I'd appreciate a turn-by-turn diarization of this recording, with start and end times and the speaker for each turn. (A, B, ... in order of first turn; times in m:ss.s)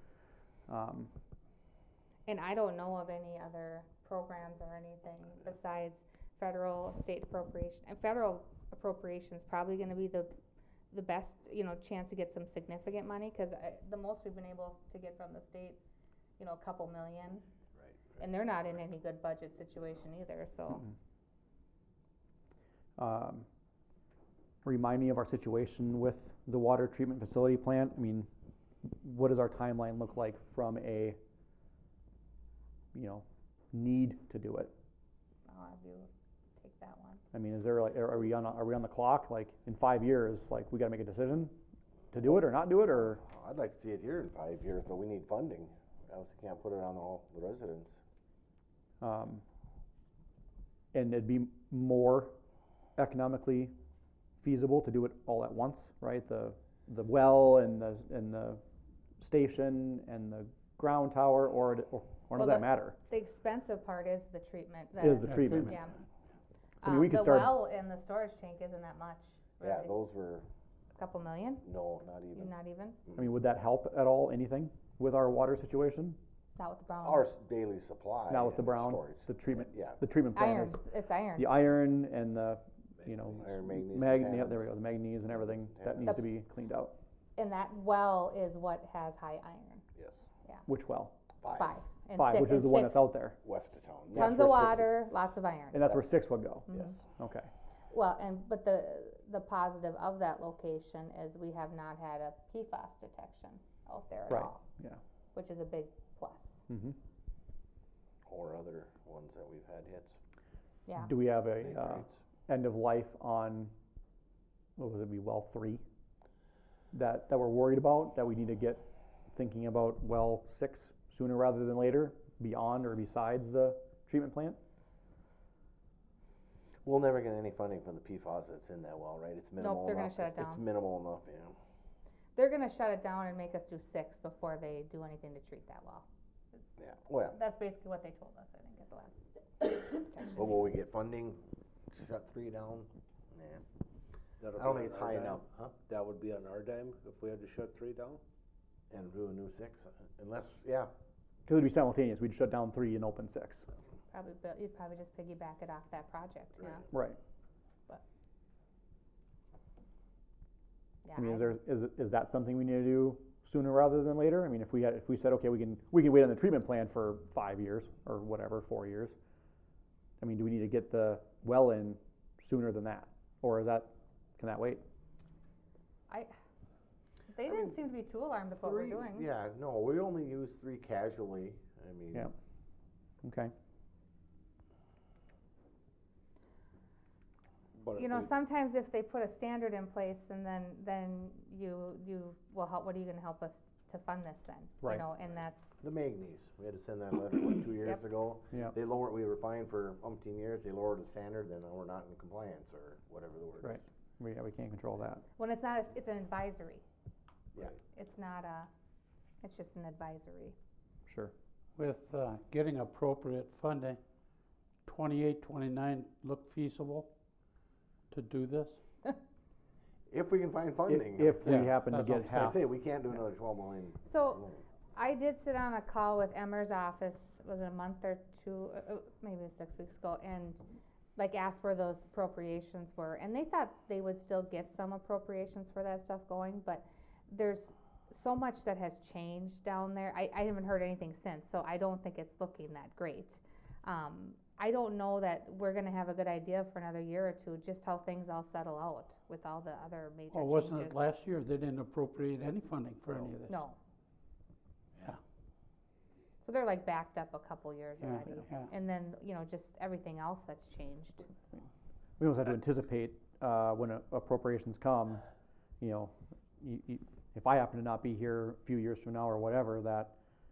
0:00.7-0:01.1 A
0:02.3-0:10.3 B
0:10.9-0:15.8 B
0:16.4-0:17.4 B
0:18.2-0:20.9 B
0:23.0-0:23.5 A
0:24.6-0:28.3 A
0:28.8-0:31.2 A
0:32.9-0:34.7 A
0:35.5-0:37.2 B
0:37.3-0:41.6 A
0:42.1-0:43.2 A
0:43.1-0:48.0 C
0:49.0-0:49.4 A
0:50.9-0:52.4 A
0:53.0-0:53.7 A
0:54.4-0:58.6 A
0:59.2-1:03.0 A
1:02.4-1:06.0 B
1:05.0-1:05.8 A
1:05.2-1:05.8 D
1:06.8-1:07.6 A
1:06.8-1:09.9 B
1:09.6-1:10.5 C
1:11.0-1:11.7 B
1:11.6-1:12.5 C
1:12.3-1:13.0 B
1:13.2-1:16.2 A
1:16.6-1:17.3 B
1:17.0-1:20.0 C
1:18.3-1:20.8 A
1:20.3-1:21.6 B
1:21.4-1:27.0 A
1:23.4-1:24.6 C
1:25.7-1:26.2 C
1:27.4-1:29.8 B
1:30.0-1:30.2 C
1:30.7-1:31.2 A
1:31.4-1:31.8 C
1:31.5-1:33.2 B
1:32.1-1:33.4 A
1:33.4-1:34.8 C
1:34.1-1:34.9 A
1:34.1-1:35.8 B
1:35.7-1:37.5 A
1:36.7-1:37.0 C
1:37.9-1:44.6 B
1:44.3-1:45.0 A
1:45.3-1:46.6 B
1:46.7-1:47.0 A
1:48.2-1:50.2 C
1:50.9-1:51.1 B
1:51.0-1:53.7 A
1:51.6-1:52.2 C
1:54.8-1:55.8 A
1:56.9-2:04.6 A
2:06.8-2:11.6 C
2:09.6-2:10.6 B
2:12.4-2:16.1 B
2:16.8-2:17.4 C
2:17.3-2:20.5 B
2:20.3-2:23.6 C
2:24.4-2:28.2 E
2:24.5-2:25.8 C
2:28.9-2:30.9 C
2:31.5-2:33.7 A
2:34.1-2:36.9 B
2:36.9-2:37.2 A
2:41.0-2:41.5 B
2:41.2-2:49.2 A
2:50.2-2:54.8 A
2:56.1-2:56.3 B
2:57.3-2:59.3 B
2:58.5-3:02.3 C
3:03.2-3:03.5 A
3:07.8-3:08.3 E
3:07.9-3:15.8 B
3:15.8-3:23.8 C
3:23.6-3:25.2 A
3:25.4-3:26.8 B
3:27.9-3:28.7 B
3:29.4-3:30.6 B
3:31.1-3:31.3 A
3:31.8-3:34.0 D
3:34.9-3:37.1 D
3:38.1-3:38.8 D
3:40.1-3:41.6 C
3:40.9-3:42.6 A
3:41.4-3:42.6 D
3:42.4-3:44.6 C
3:44.0-3:44.4 B
3:45.0-3:50.6 B
3:51.2-4:11.0 B
4:10.3-4:13.6 D
4:13.5-4:13.8 B
4:16.4-4:21.3 B
4:18.0-4:18.7 D
4:22.2-4:25.2 A
4:25.8-4:30.2 A